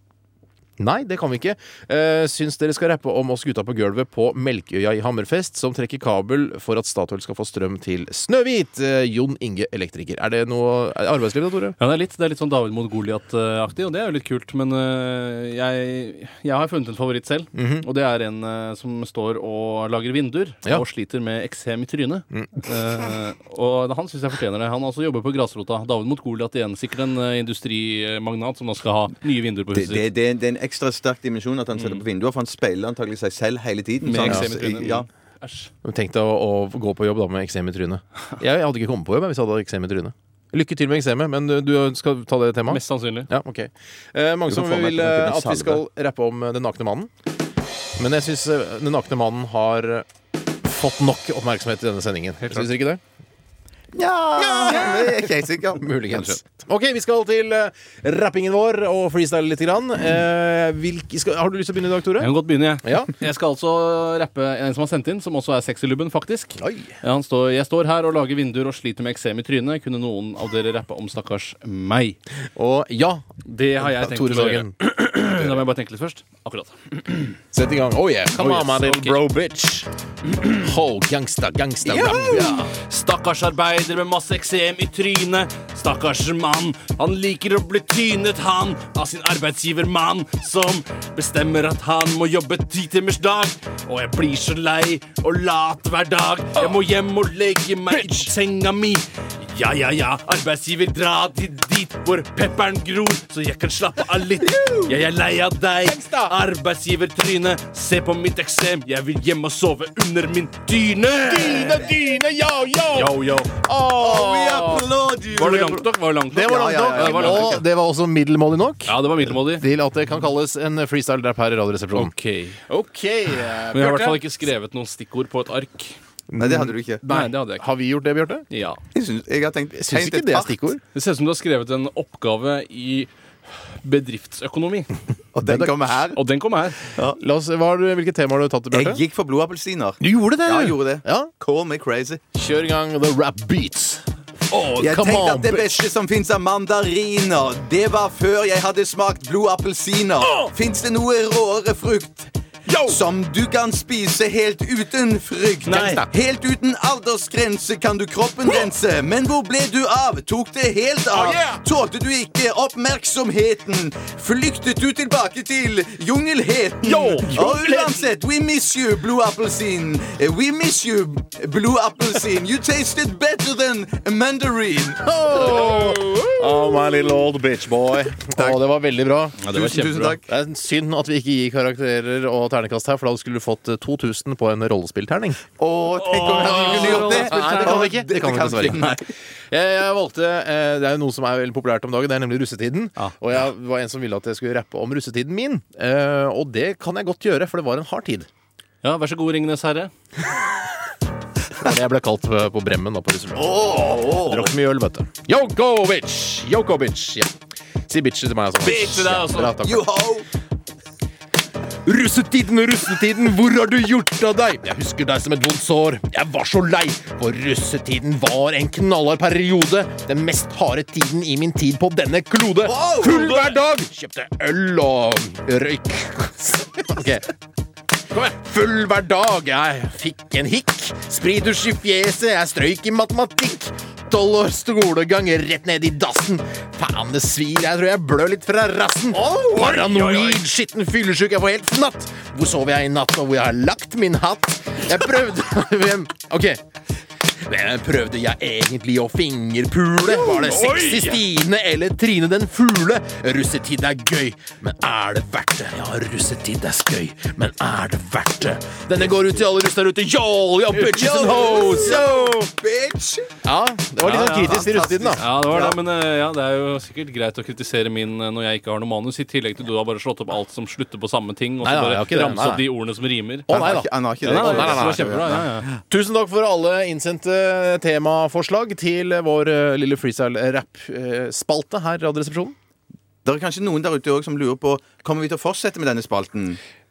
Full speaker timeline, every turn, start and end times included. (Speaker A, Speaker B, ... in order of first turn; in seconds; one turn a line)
Speaker A: 0.8-11.8
Speaker B: 11.8-30.1
Speaker A: 17.5-17.9
Speaker A: 22.3-22.6
Speaker C: 29.7-35.1
Speaker B: 34.0-35.7
Speaker A: 34.2-34.5
Speaker A: 35.8-47.1
Speaker B: 42.7-43.3
Speaker C: 44.5-45.8
Speaker A: 48.0-50.1
Speaker A: 50.6-53.0
Speaker C: 53.9-56.4
Speaker A: 54.4-62.3
Speaker B: 62.2-72.2
Speaker A: 62.8-63.1
Speaker A: 66.6-66.9
Speaker A: 72.6-74.7
Speaker B: 73.5-77.4
Speaker A: 77.5-79.9
Speaker B: 78.3-79.2
Speaker A: 80.4-82.7
Speaker C: 81.8-82.7
Speaker B: 82.0-111.9
Speaker C: 104.4-105.0
Speaker A: 105.8-106.3
Speaker A: 111.2-114.9
Speaker B: 112.9-113.5
Speaker C: 113.9-117.6
Speaker B: 115.3-117.6
Speaker A: 116.3-122.1
Speaker B: 118.9-119.6
Speaker B: 121.9-122.6
Speaker A: 122.7-124.2
Speaker B: 123.7-126.0
Speaker A: 126.3-128.5
Speaker C: 126.4-127.0
Speaker B: 127.0-127.7
Speaker B: 128.5-128.8
Speaker C: 128.9-130.6
Speaker A: 129.8-130.8
Speaker B: 130.9-133.1
Speaker B: 133.6-134.9
Speaker C: 135.3-136.2
Speaker A: 135.4-135.7
Speaker B: 136.1-136.8
Speaker A: 137.1-139.0
Speaker C: 138.7-142.2
Speaker A: 140.0-141.3
Speaker A: 142.3-145.8
Speaker C: 144.8-152.3
Speaker A: 152.7-153.0
Speaker C: 152.8-176.2
Speaker A: 155.7-156.1
Speaker B: 155.7-156.0
Speaker A: 161.1-161.6
Speaker A: 166.8-168.0
Speaker A: 175.1-179.4
Speaker C: 178.3-178.6
Speaker B: 179.4-180.2
Speaker C: 179.5-180.3
Speaker A: 180.3-185.4
Speaker C: 185.6-189.0
Speaker B: 186.0-187.9
Speaker A: 186.6-198.3
Speaker B: 198.8-199.9
Speaker A: 201.6-207.3
Speaker C: 203.4-204.5
Speaker A: 207.9-209.9
Speaker B: 208.6-209.6
Speaker C: 209.3-210.3
Speaker A: 211.8-227.3
Speaker C: 222.6-223.6
Speaker A: 228.1-246.6
Speaker C: 239.1-240.2
Speaker B: 239.6-240.4
Speaker A: 247.3-262.4
Speaker B: 250.1-251.2
Speaker C: 260.7-263.3
Speaker A: 263.4-265.2
Speaker B: 264.0-273.6
Speaker C: 264.4-265.8
Speaker A: 271.6-272.7
Speaker A: 273.5-275.2
Speaker C: 273.5-275.6
Speaker B: 274.2-275.7
Speaker A: 275.8-282.6
Speaker C: 283.2-286.6